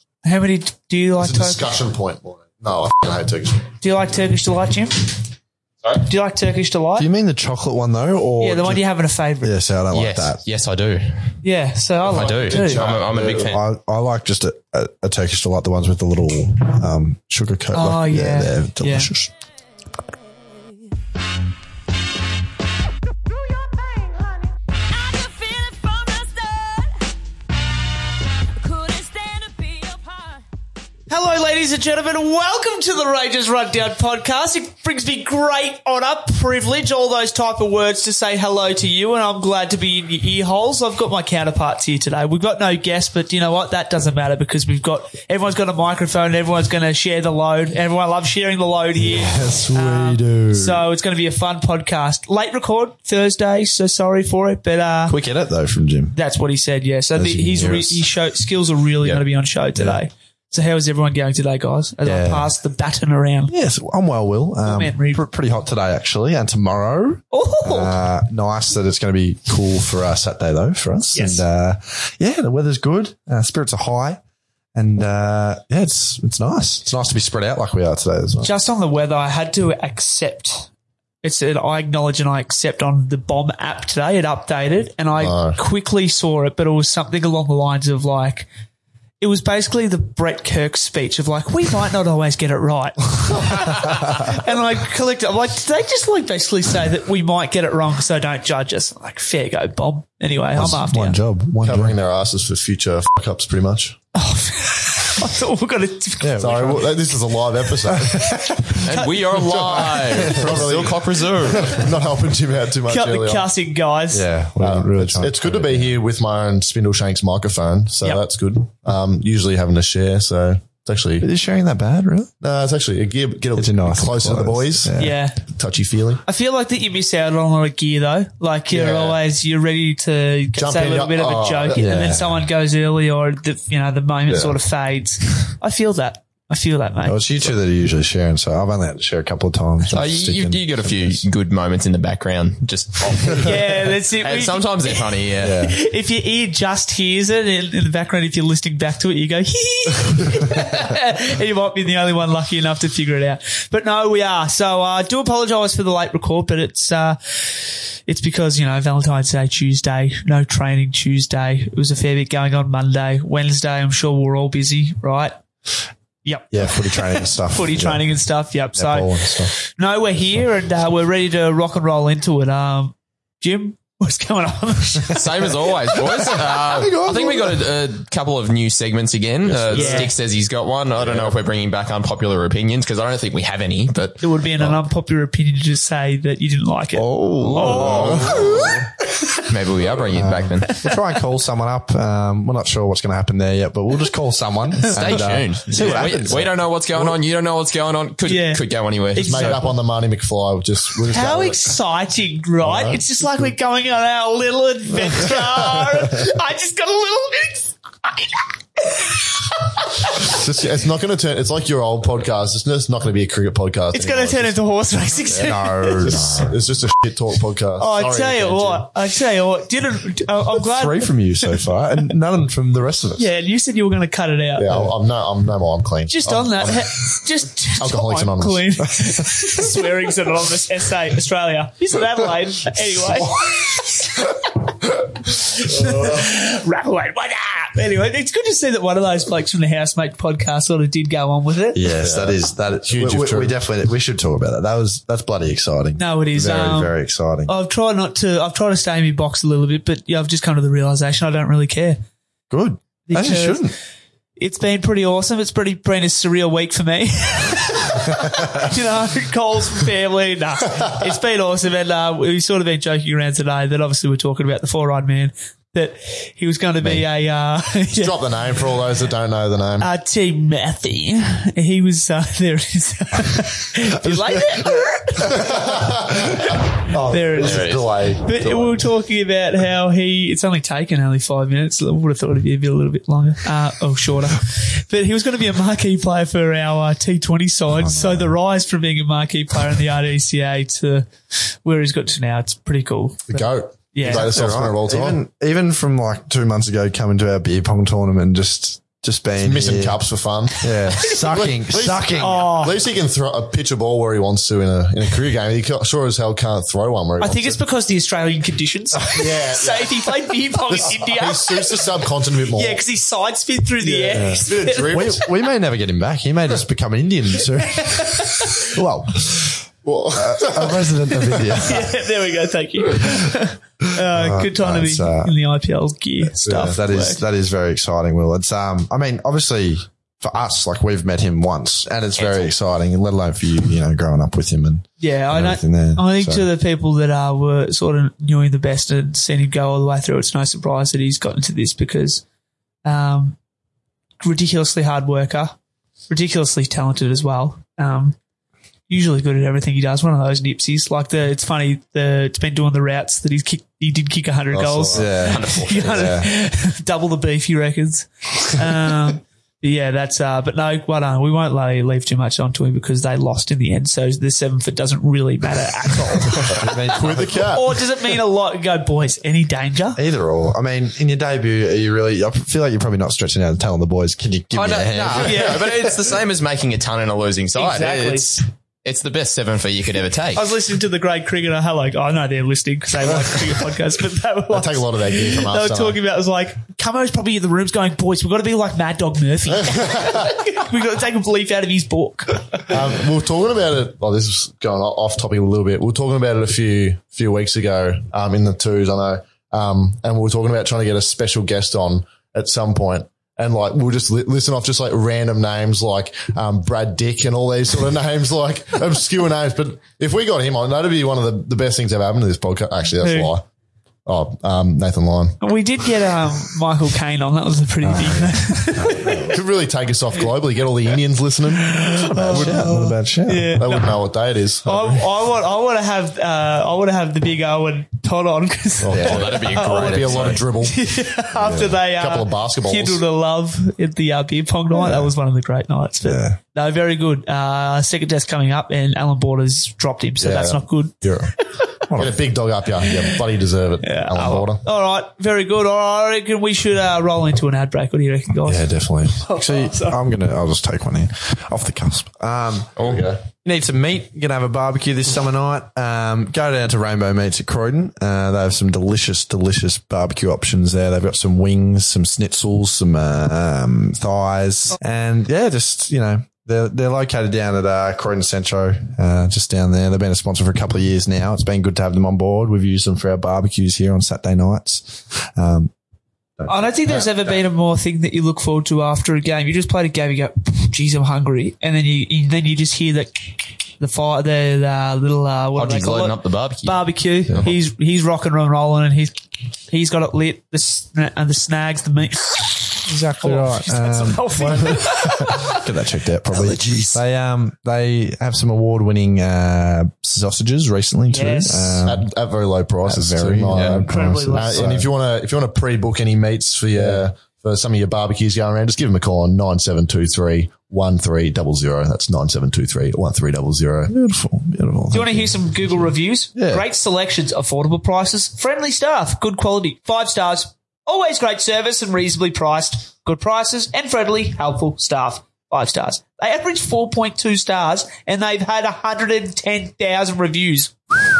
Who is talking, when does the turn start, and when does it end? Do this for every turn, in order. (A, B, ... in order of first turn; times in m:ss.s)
0:00.2-0:01.7 A
0:01.2-0:03.7 B
0:03.8-0:05.2 A
0:05.9-0:07.1 A
0:07.0-0:08.8 C
0:08.4-0:09.5 A
0:09.4-0:10.4 C
0:09.9-0:11.4 D
0:11.4-0:12.9 A
0:12.0-0:13.6 D
0:12.5-0:13.5 B
0:13.2-0:19.3 C
0:17.7-0:19.1 A
0:23.4-0:27.0 E
0:27.9-0:30.4 E
0:31.1-0:55.1 A
0:49.0-0:50.8 C
0:55.1-0:56.2 C
0:56.1-1:03.5 A
0:57.1-0:58.0 C
0:59.8-1:00.0 C
1:02.0-1:02.5 C
1:03.5-1:14.2 C
1:04.6-1:05.2 A
1:07.3-1:08.0 A
1:11.1-1:11.4 A
1:14.7-1:18.5 C
1:18.4-1:20.7 A
1:21.2-1:28.5 A
1:25.2-1:25.6 B
1:29.2-1:41.2 A
1:40.5-1:42.0 C
1:41.6-1:44.0 B
1:44.1-1:46.9 A
1:46.2-1:47.0 C
1:46.4-1:48.4 B
1:47.8-1:48.8 C
1:48.7-1:49.5 A
1:48.8-1:51.9 D
1:49.4-1:53.5 B
1:49.9-1:50.9 C
1:52.9-1:54.3 A
1:54.1-1:56.0 C
1:54.6-2:01.3 B
2:01.2-2:02.3 C
2:02.4-2:05.0 B
2:03.6-2:05.2 C
2:05.0-2:05.4 A
2:05.5-2:06.2 B
2:06.2-2:17.3 A
2:08.7-2:09.2 B
2:10.6-2:11.9 B
2:11.7-2:12.5 C
2:14.3-2:14.5 B
2:17.0-2:21.2 C
2:19.9-2:25.6 D
2:23.4-2:45.4 A
2:25.4-2:25.8 C
2:46.2-2:56.3 A
2:46.5-2:48.0 C
2:48.7-2:49.5 C
2:55.1-3:04.8 D
2:56.4-2:57.7 C
2:59.5-3:00.0 C
2:59.7-3:00.1 A
3:04.2-3:08.7 A
3:06.9-3:08.7 C
3:07.4-3:08.7 D
3:07.9-3:08.8 B
3:09.4-3:10.8 D
3:10.1-3:17.2 C
3:14.9-3:19.5 D
3:15.8-3:16.1 A
3:18.2-3:19.8 A
3:19.2-3:21.8 B
3:19.3-3:19.6 C
3:21.1-3:30.4 A
3:22.6-3:23.0 B
3:30.2-3:34.6 B
3:33.9-3:36.4 A
3:35.3-3:36.6 C
3:36.0-3:38.9 B
3:37.8-3:41.6 A
3:40.6-3:43.2 C
3:43.2-3:44.8 A
3:44.6-3:47.1 B
3:46.1-4:01.9 A
3:47.7-3:48.8 B
3:53.1-3:53.8 C
4:01.7-4:07.5 C
4:02.0-4:03.5 B
4:06.0-4:06.9 A
4:07.4-4:12.0 A
4:12.5-4:13.7 C
4:13.1-4:13.7 A
4:14.4-4:28.3 A
4:28.0-4:29.9 B
4:29.8-4:54.3 A
4:34.0-4:38.8 C
4:37.4-4:37.9 D
4:47.7-4:48.4 C
4:53.3-4:55.2 B
4:54.0-5:00.0 C
4:59.3-5:07.6 B
5:00.6-5:02.6 C
5:02.1-5:02.8 A
5:07.2-5:11.9 A
5:09.1-5:12.8 B
5:12.5-5:15.3 A
5:13.8-5:15.2 B
5:14.1-5:22.0 C
5:17.7-5:18.7 A
5:19.8-5:21.5 B
5:21.5-5:27.2 A
5:24.0-5:25.3 C
5:26.4-5:26.8 B
5:26.4-5:36.4 C
5:32.2-5:32.5 D
5:35.0-5:42.2 A
5:42.8-5:43.4 A
5:44.2-5:45.6 A
5:46.1-5:48.2 A
5:48.9-6:06.7 A
5:54.5-5:55.1 B
5:54.9-5:56.3 C
5:55.2-5:56.1 D
6:06.4-6:07.6 C
6:06.5-6:07.8 B
6:07.3-6:10.0 A
6:10.0-6:16.1 C
6:14.5-6:20.4 D
6:15.2-6:15.6 A
6:17.5-6:18.4 A
6:20.3-6:32.7 A
6:24.5-6:26.0 B
6:29.7-6:30.0 B
6:32.7-6:53.4 B
6:53.0-6:53.3 A
6:54.0-6:55.4 B
6:55.4-6:59.2 A
6:57.8-6:59.4 C
6:59.1-7:02.7 B
7:01.5-7:04.0 A
7:02.2-7:03.6 C
7:03.5-7:05.0 B
7:04.6-7:21.7 A
7:08.8-7:10.8 B
7:08.9-7:10.4 D
7:11.4-7:11.8 C
7:11.9-7:13.0 B
7:16.0-7:16.4 C
7:20.2-7:21.4 B
7:21.9-7:22.2 C
7:21.9-7:24.6 B
7:22.8-7:23.2 A
7:23.8-7:30.0 A
7:28.4-7:32.7 C
7:32.8-7:33.0 D
7:32.8-7:33.2 B
7:33.4-7:55.7 C
7:56.4-7:57.4 C
7:56.5-8:15.6 A
8:05.6-8:06.8 D
8:12.8-8:22.1 C
8:16.3-8:17.0 A
8:21.1-8:21.8 A
8:21.8-8:33.9 B
8:22.8-8:24.9 C
8:23.5-8:23.8 D
8:23.8-8:24.7 A
8:26.8-8:27.0 C
8:33.9-8:36.6 C
8:34.9-8:50.8 A